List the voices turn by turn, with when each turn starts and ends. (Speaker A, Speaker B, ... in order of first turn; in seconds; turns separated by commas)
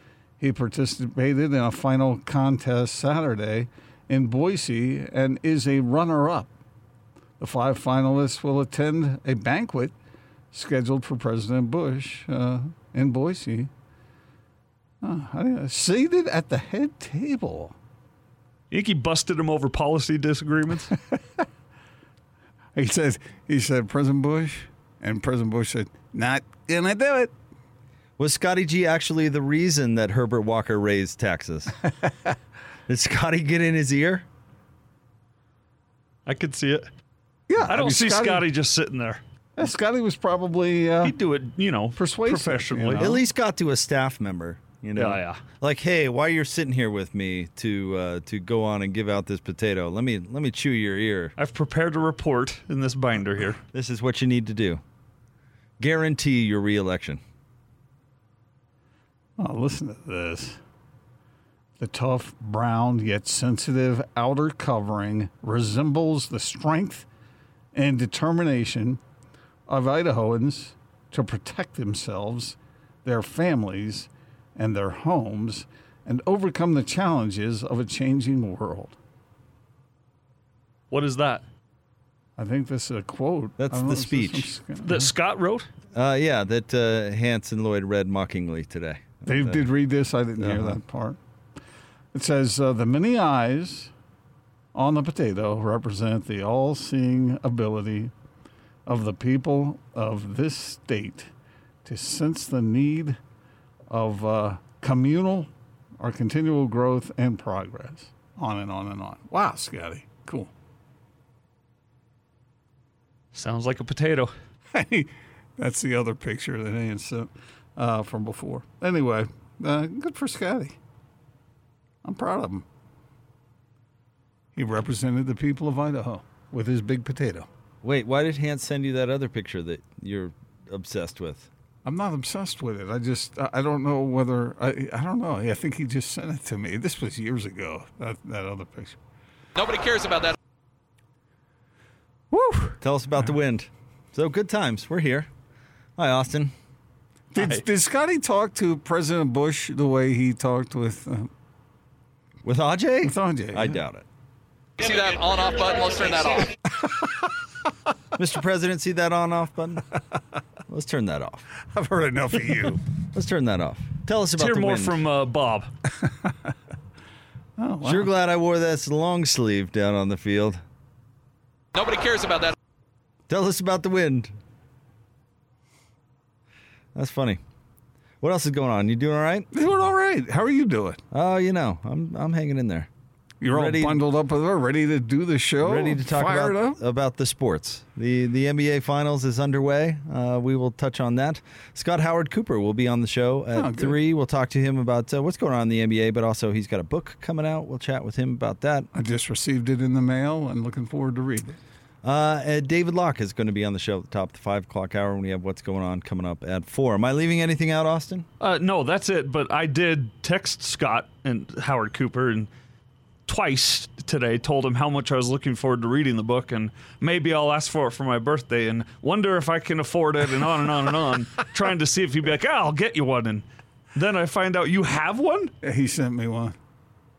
Speaker A: 0.4-6.5, Speaker A: 7.4-9.9, Speaker A: 10.5-13.7, Speaker A: 15.0-17.7, Speaker B: 18.7-20.9, Speaker A: 22.7-27.3, Speaker C: 28.2-31.7, Speaker C: 32.9-34.2, Speaker B: 36.3-36.9, Speaker A: 37.5-38.5, Speaker B: 37.6-39.2, Speaker A: 39.6-41.1, Speaker B: 41.0-43.1, Speaker A: 42.0-43.2, Speaker C: 43.0-51.3, Speaker B: 45.0-45.4, Speaker B: 51.4-53.6, Speaker C: 53.7-54.8, Speaker C: 55.8-57.2, Speaker A: 59.4-60.6, Speaker A: 61.8-67.1, Speaker A: 67.7-69.0, Speaker A: 69.7-78.9, Speaker B: 80.9-81.4, Speaker A: 82.4-85.1, Speaker C: 83.6-84.5, Speaker B: 84.8-85.7, Speaker C: 85.9-89.6, Speaker A: 89.2-91.2, Speaker C: 90.4-90.8, Speaker A: 92.1-93.9, Speaker A: 94.7-98.1, Speaker A: 98.8-101.3, Speaker A: 101.8-103.2, Speaker A: 103.9-105.5, Speaker A: 106.0-110.5, Speaker B: 113.3-114.3, Speaker A: 114.7-120.8, Speaker A: 122.0-122.6, Speaker A: 124.5-127.5, Speaker C: 127.8-131.5, Speaker A: 131.8-139.0, Speaker D: 139.6-140.3, Speaker A: 142.3-142.8, Speaker C: 142.8-145.3, Speaker C: 146.0-146.5, Speaker A: 147.3-151.3, Speaker B: 147.3-147.6, Speaker C: 152.4-154.1, Speaker A: 153.0-153.8, Speaker D: 154.8-156.6, Speaker C: 158.2-159.9, Speaker C: 160.7-161.4, Speaker A: 161.7-162.8, Speaker C: 163.1-165.0, Speaker B: 164.3-165.7, Speaker A: 166.0-166.3, Speaker A: 167.6-168.1, Speaker C: 167.8-170.6, Speaker D: 171.7-172.5, Speaker C: 173.3-174.3, Speaker C: 176.9-177.4, Speaker C: 178.2-179.5, Speaker A: 179.5-181.0, Speaker C: 181.1-182.9, Speaker A: 183.4-186.8, Speaker C: 183.5-184.0, Speaker C: 185.6-198.9, Speaker A: 193.5-194.0, Speaker A: 198.9-201.5, Speaker C: 202.0-208.2, Speaker B: 208.4-212.5, Speaker B: 213.3-225.5, Speaker A: 225.6-226.5